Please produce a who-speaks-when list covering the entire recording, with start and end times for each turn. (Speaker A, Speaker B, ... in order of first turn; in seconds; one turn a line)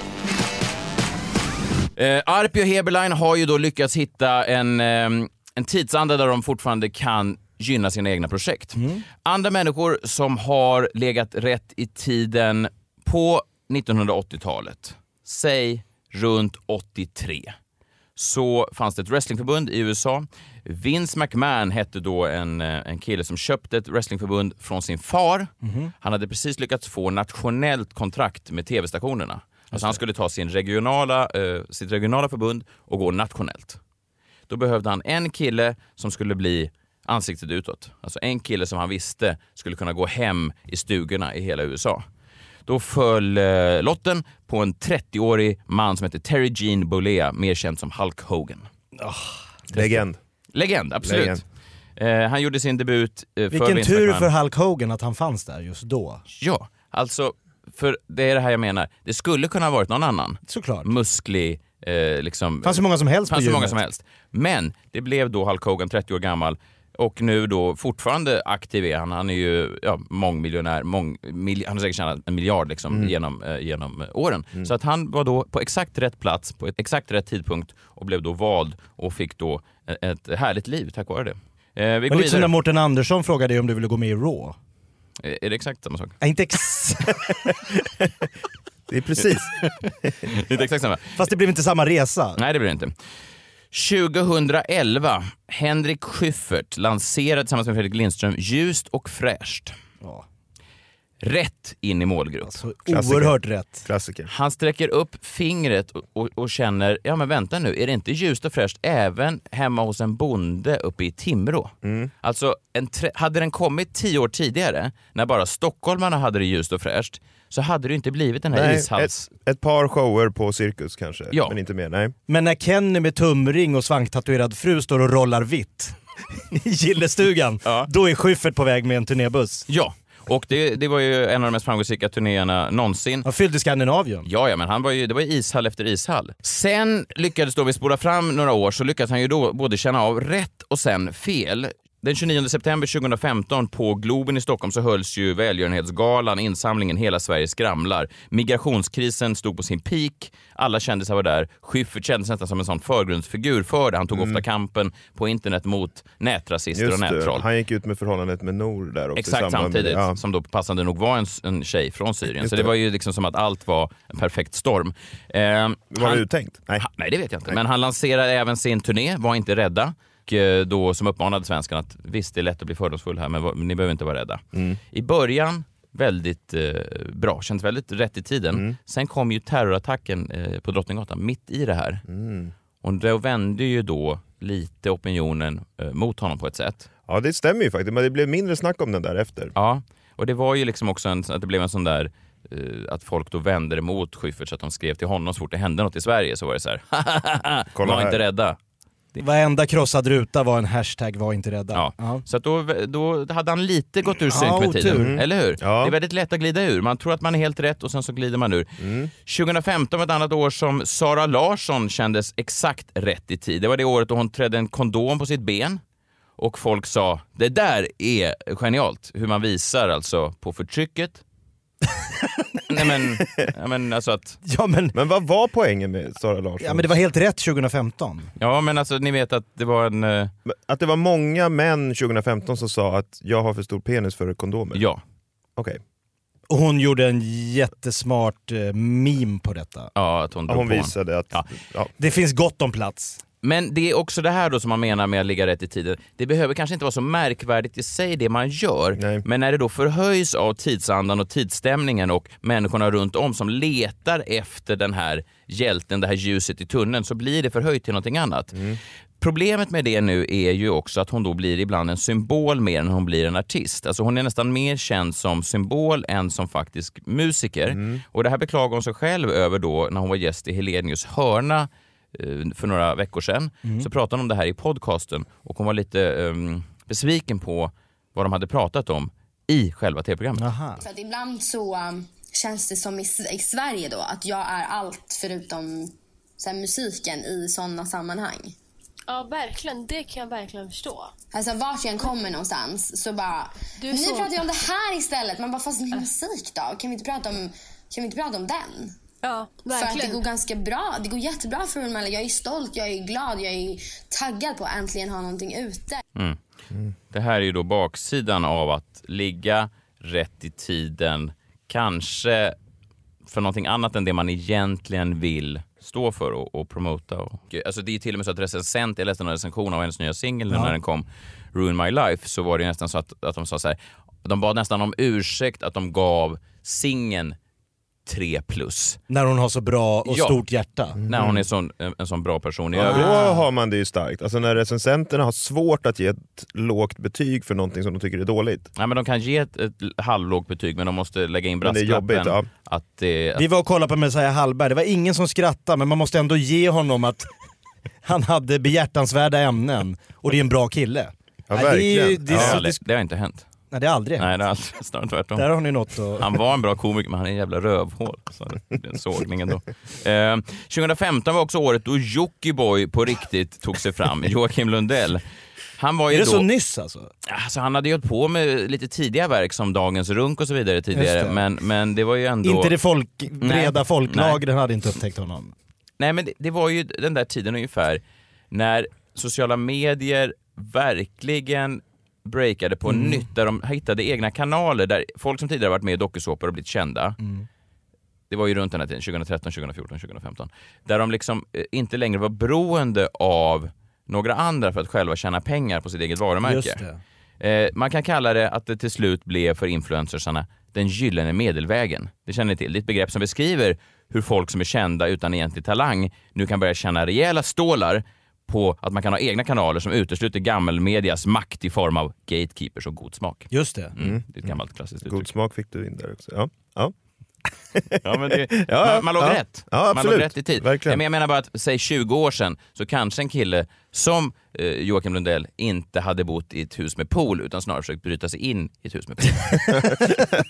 Speaker A: 2.0-17.6
Speaker B: 8.8-9.0
Speaker A: 18.2-33.8
Speaker B: 25.6-25.9
Speaker B: 29.7-30.0
Speaker A: 34.5-42.0
Speaker A: 42.7-48.7
Speaker B: 49.0-50.0
Speaker C: 49.7-50.2
Speaker A: 50.5-51.4
Speaker C: 51.0-51.4
Speaker A: 52.0-54.3
Speaker B: 53.5-56.2
Speaker A: 56.4-82.5
Speaker B: 60.5-60.9
Speaker B: 62.6-63.8
Speaker B: 82.1-84.6
Speaker A: 85.2-86.2
Speaker B: 86.2-87.1
Speaker C: 88.9-89.6
Speaker A: 90.3-91.2
Speaker B: 91.2-92.4
Speaker A: 92.4-92.9
Speaker A: 93.7-99.7
Speaker A: 101.2-102.6
Speaker B: 102.5-103.9
Speaker C: 102.9-104.3
Speaker A: 104.3-119.2
Speaker C: 111.8-112.1
Speaker C: 118.5-122.2
Speaker B: 122.3-126.0
Speaker B: 126.5-129.7
Speaker A: 129.7-133.3
Speaker B: 133.2-134.3
Speaker A: 134.2-157.4
Speaker C: 154.1-154.4
Speaker C: 156.7-160.2
Speaker A: 159.2-166.2
Speaker C: 162.4-162.7
Speaker C: 165.9-166.9
Speaker A: 166.8-182.0
Speaker C: 174.5-174.8
Speaker C: 182.1-182.5
Speaker A: 182.8-186.9
Speaker C: 187.1-189.5
Speaker A: 189.6-198.6
Speaker C: 197.8-198.2
Speaker B: 199.2-202.2
Speaker A: 201.7-208.7
Speaker B: 204.3-205.1
Speaker C: 204.8-205.9
Speaker C: 208.8-209.1
Speaker A: 209.2-215.8
Speaker A: 216.4-221.2
Speaker A: 222.7-224.4
Speaker B: 224.5-224.9
Speaker C: 224.9-226.9
Speaker B: 226.6-228.3
Speaker A: 228.4-230.3
Speaker C: 230.5-234.9
Speaker A: 234.7-235.0
Speaker B: 236.5-239.9
Speaker A: 240.0-241.5
Speaker C: 240.5-241.9
Speaker B: 242.0-243.2
Speaker A: 243.4-258.6
Speaker C: 248.9-249.2
Speaker C: 258.5-258.8
Speaker A: 259.2-280.5
Speaker C: 267.7-268.0
Speaker B: 280.4-280.8
Speaker D: 280.8-288.6
Speaker E: 289.1-291.1
Speaker D: 291.3-299.0
Speaker E: 293.8-294.4
Speaker E: 299.2-300.2
Speaker D: 299.7-306.0
Speaker A: 307.1-312.6
Speaker A: 313.3-327.4
Speaker A: 328.1-329.0
Speaker B: 329.1-331.0
Speaker A: 330.1-330.4
Speaker C: 331.0-331.4
Speaker A: 331.1-333.2
Speaker C: 332.8-338.7
Speaker B: 332.8-333.4
Speaker A: 338.8-343.4
Speaker C: 341.6-342.5
Speaker B: 343.4-347.3
Speaker B: 348.0-352.8
Speaker C: 351.5-352.6
Speaker A: 352.3-353.5
Speaker B: 353.7-354.3
Speaker A: 354.2-355.5
Speaker B: 355.4-356.3
Speaker A: 356.2-365.2
Speaker A: 365.8-366.5
Speaker B: 366.1-367.1
Speaker A: 367.3-372.7
Speaker B: 370.9-371.4
Speaker B: 372.4-375.5
Speaker A: 373.4-374.4
Speaker A: 376.0-387.2
Speaker B: 382.9-383.3
Speaker B: 387.2-387.5
Speaker A: 388.3-396.8
Speaker B: 396.4-397.0
Speaker A: 397.4-415.3
Speaker B: 413.5-413.9
Speaker C: 414.0-414.5
Speaker C: 415.0-416.9
Speaker C: 417.8-421.0
Speaker A: 418.0-429.8